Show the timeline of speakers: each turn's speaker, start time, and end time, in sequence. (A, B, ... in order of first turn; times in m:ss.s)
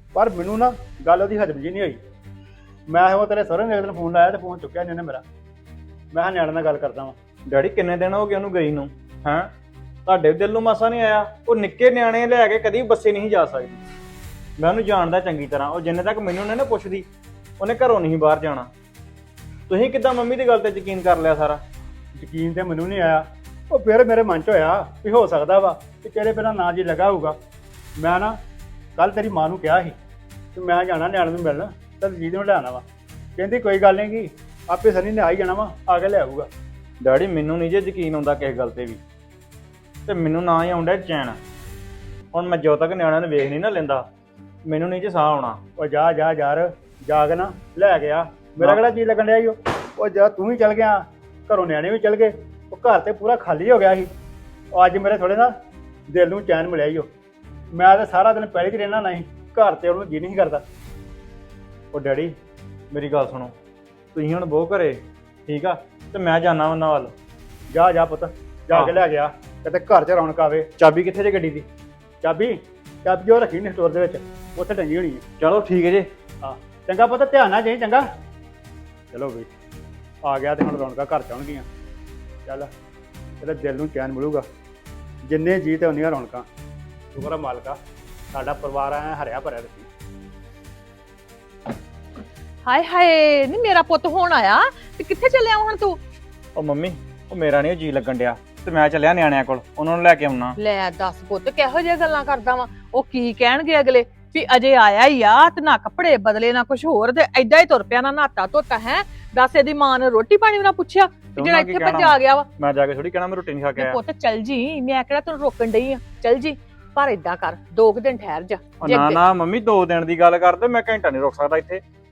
0:00.1-0:02.0 A
0:02.9-0:05.2 A
0:06.1-0:07.1 A
0:07.5-0:09.5 B
0:10.0-0:13.8 B
0:14.6-0:17.0 B
0:17.6-0:18.7 B
0:19.7-0:21.6 B
0:22.1-0:27.3 A
0:28.0-0:28.4 A
0:29.0-0:29.9 A
0:30.5-0:32.8 A
0:33.4-0:36.5 A
0:37.0-0:39.0 B
0:40.0-0:41.4 B
0:42.3-0:44.0 B
0:44.6-0:45.6 B
0:45.8-0:54.1 A
0:54.7-0:55.5 A
0:56.1-0:57.1 A
0:57.7-1:00.6 A
1:02.9-1:03.5 B
1:04.2-1:04.8 B
1:05.5-1:07.1 B
1:07.7-1:10.7 A
1:10.8-1:11.6 B
1:12.2-1:15.2 A
1:15.4-1:16.0 B
1:16.4-1:18.0 A
1:19.1-1:19.5 A
1:20.2-1:21.6 A
1:23.4-1:24.4 A
1:25.2-1:26.4 A
1:27.1-1:27.8 A
1:28.3-1:29.9 A
1:32.6-1:36.0 C
1:36.5-1:40.6 B
1:40.6-1:52.5 C
1:51.4-1:54.0 B
1:53.8-1:59.2 C
1:58.8-2:01.8 B